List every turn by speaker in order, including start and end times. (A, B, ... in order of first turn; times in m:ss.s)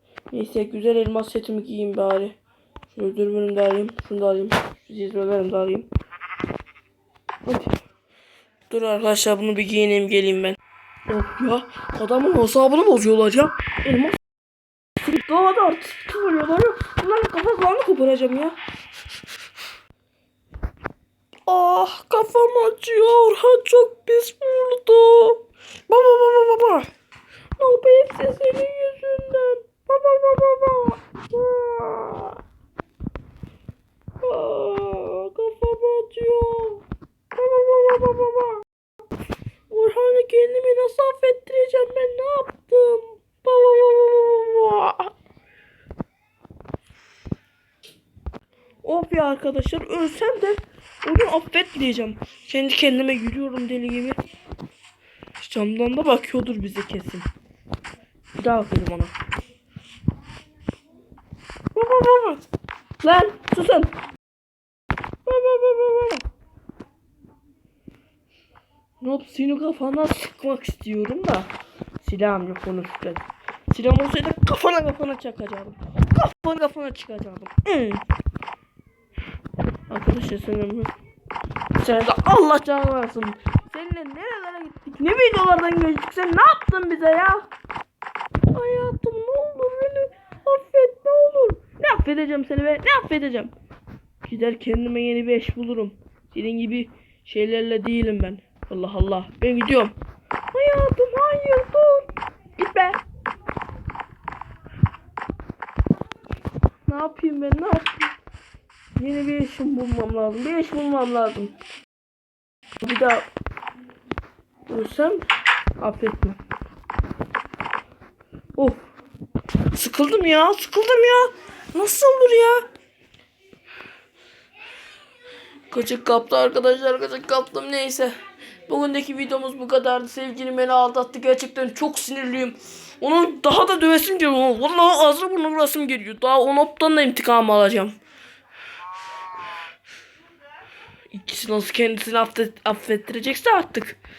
0:00.3-0:02.4 A
0:02.9-0:05.9 A
0:07.4-0:07.8 A
0:08.7-0:14.2 A
0:15.0-0:18.6 A
0:21.4-0:26.9 A
0:27.6-0:32.4 A
0:34.2-0:38.6 A
0:39.7-0:45.1 A
0:48.8-0:54.2 A
0:55.4-0:57.3 A
0:58.3-0:59.1 A
1:01.7-1:02.4 A
1:03.0-1:04.0 A
1:05.2-1:06.2 A
1:09.0-1:18.0 A
1:19.9-1:20.9 A
1:21.8-1:27.5 A
1:28.5-1:33.5 A
1:34.2-1:40.0 A
1:40.5-1:43.0 A
1:46.8-1:48.1 A
1:49.0-1:51.5 A
1:52.8-1:53.3 A
1:54.7-1:55.2 A
1:55.8-1:56.4 A
1:59.7-2:02.6 A
2:05.7-2:08.1 A
2:08.7-2:17.9 A
2:21.1-2:24.0 A